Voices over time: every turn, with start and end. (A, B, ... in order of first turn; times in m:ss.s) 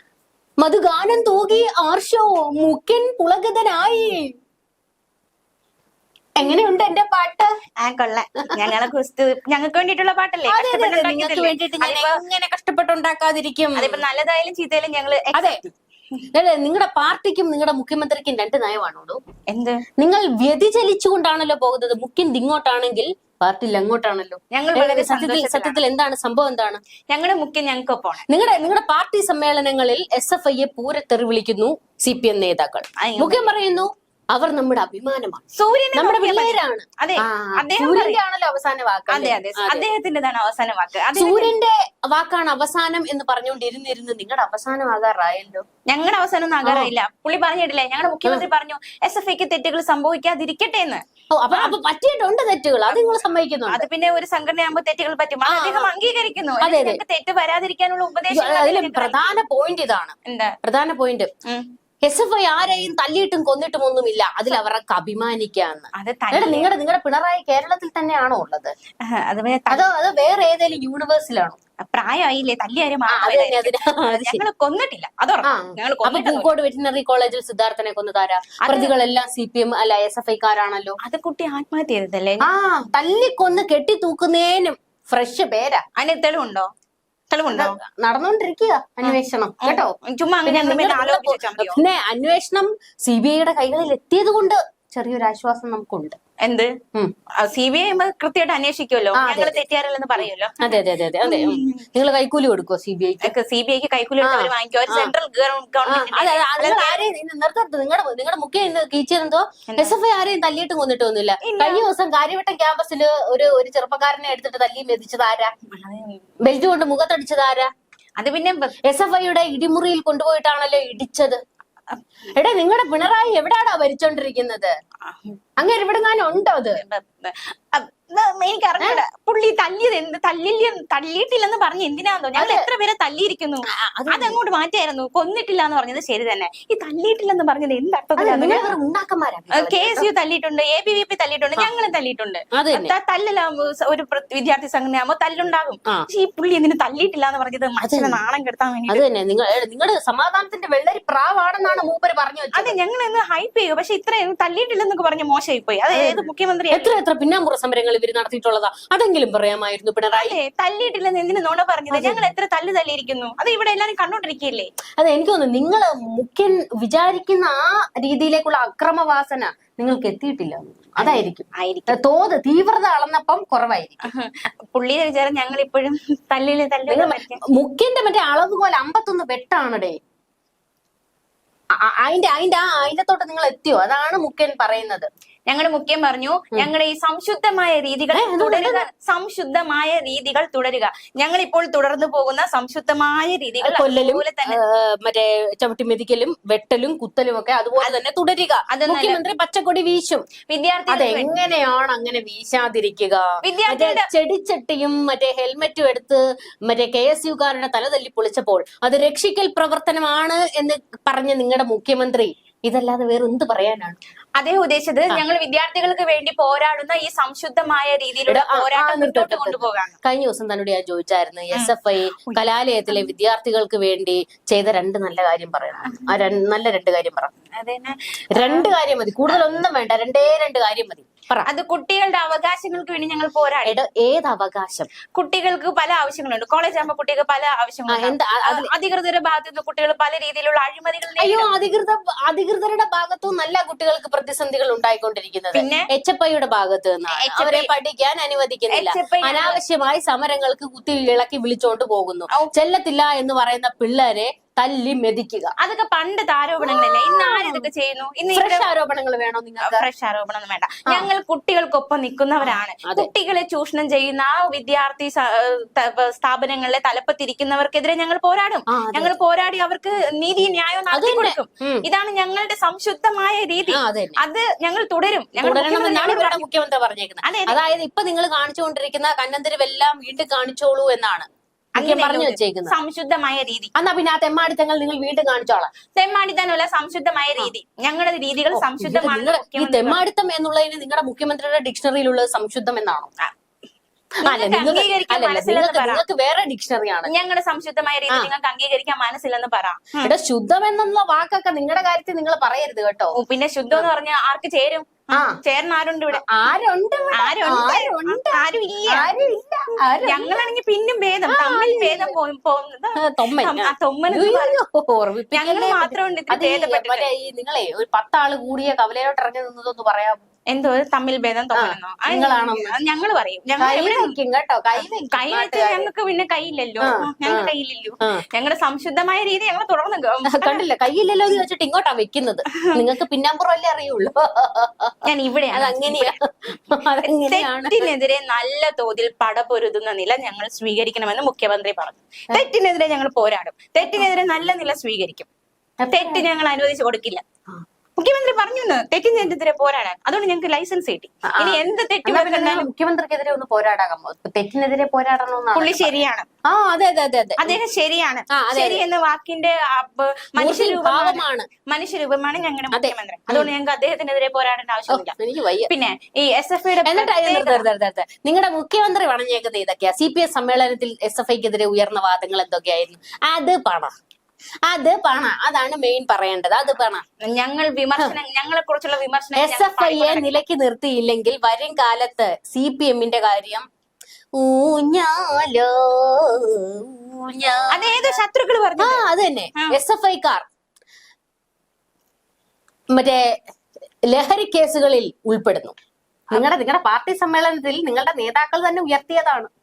0:00.6-0:04.3 A
0:06.4-0:07.5 A
0:07.8-0:12.2 B
0:08.4-0:08.7 A
0:10.5-0:14.0 A
0:13.7-0:15.7 B
0:15.3-0:15.6 A
0:16.3-0:19.2 A
0:19.5-0:19.8 B
0:20.0-0:26.8 A
0:24.5-0:25.8 B
0:27.1-0:28.2 B
0:28.3-0:35.4 A
0:33.0-0:33.5 B
0:35.6-0:38.2 B
0:35.9-0:39.9 A
0:39.1-0:41.5 B
0:41.1-0:45.6 A
0:45.9-0:51.7 B
0:46.6-0:46.9 A
0:51.3-0:53.8 A
0:53.7-0:59.4 B
0:55.4-0:55.9 A
0:56.6-0:57.0 A
0:58.3-1:01.3 A
1:00.2-1:00.6 B
1:02.0-1:08.7 A
1:06.0-1:06.7 B
1:09.0-1:09.9 B
1:09.7-1:11.6 A
1:11.9-1:16.5 B
1:13.1-1:14.4 A
1:15.4-1:21.0 A
1:18.6-1:18.9 B
1:21.0-1:22.4 B
1:22.4-1:25.8 A
1:26.0-1:26.7 B
1:27.3-1:27.8 B
1:27.5-1:36.2 A
1:29.0-1:31.8 B
1:36.4-1:36.7 B
1:37.4-1:41.9 B
1:39.1-1:39.6 A
1:40.2-1:43.3 A
1:43.2-1:47.0 B
1:44.2-1:45.1 A
1:45.8-1:55.5 A
1:49.7-1:50.0 B
1:51.4-1:51.8 B
1:55.7-1:56.2 B
1:56.4-1:57.7 A
1:58.2-1:58.7 B
1:58.8-2:01.4 A
2:02.4-2:04.7 A
2:05.0-2:05.4 B
2:05.6-2:06.8 A
2:06.8-2:18.7 B
2:12.3-2:12.6 A
2:13.8-2:14.4 A
2:18.2-2:20.1 A
2:19.5-2:29.0 B
2:22.5-2:22.9 A
2:27.8-2:28.2 A
2:28.9-2:32.8 A
2:32.5-2:37.0 B
2:35.9-2:40.4 A
2:40.1-2:44.7 B
2:41.9-2:42.3 A
2:45.0-2:54.0 A
2:51.0-2:52.0 B
2:54.0-2:57.4 B
2:56.9-3:00.0 A
3:01.8-3:05.1 A
3:05.5-3:14.6 B
3:08.1-3:08.8 A
3:13.6-3:20.3 A
3:18.7-3:19.2 B
3:20.5-3:21.3 B
3:20.9-3:34.0 A
3:23.4-3:24.1 B
3:34.4-3:40.0 B
3:38.3-3:47.3 A
3:41.5-3:43.0 B
3:45.8-3:46.1 B
3:47.5-3:48.7 B
3:48.3-3:51.5 A
3:51.4-3:53.8 B
3:53.6-3:54.9 A
3:55.1-4:01.5 B
3:57.9-3:58.7 A
4:01.2-4:15.5 A
4:05.5-4:05.9 B
4:07.1-4:07.7 B
4:08.7-4:09.6 B
4:15.6-4:18.7 B
4:16.6-4:17.7 A
4:18.3-4:19.9 A
4:19.6-4:36.4 B
4:22.4-4:23.1 A
4:28.7-4:29.1 A
4:30.9-4:31.8 A
4:33.7-4:34.2 A
4:35.4-4:42.8 A
4:37.2-4:37.6 B
4:41.8-4:43.7 B
4:43.8-4:45.7 A
4:45.9-4:50.0 B
4:48.5-4:53.1 A
4:54.2-4:56.0 B
4:54.2-4:57.1 A
4:57.1-5:00.1 B
5:00.0-5:03.1 A
5:03.1-5:06.4 B
5:05.1-5:05.4 A
5:06.1-5:10.5 A
5:07.1-5:09.1 B
5:10.0-5:14.6 B
5:11.3-5:12.2 A
5:13.0-5:20.2 A
5:15.3-5:17.1 B
5:20.5-5:24.1 B
5:21.5-5:22.7 A
5:23.6-5:25.9 A
5:24.8-5:30.6 B
5:26.8-5:28.2 A
5:30.3-5:37.9 A
5:35.0-5:36.1 B
5:37.0-5:45.3 B
5:43.8-5:44.1 A
5:45.8-5:46.2 A
5:45.9-5:47.2 B
5:48.0-5:52.7 B
5:51.2-5:55.9 A
5:55.5-5:56.2 B
5:56.4-5:57.6 A
5:57.4-6:07.6 B
5:58.3-5:58.8 A
6:00.4-6:01.5 A
6:02.7-6:03.5 A
6:04.9-6:05.7 A
6:06.8-6:13.9 A
6:14.7-6:17.0 A
6:17.2-6:20.4 B
6:19.4-6:23.6 A
6:24.4-6:28.2 A
6:27.7-6:29.0 B
6:28.8-6:30.4 A
6:32.9-6:33.4 A
6:34.1-6:35.7 A
6:36.3-6:39.5 A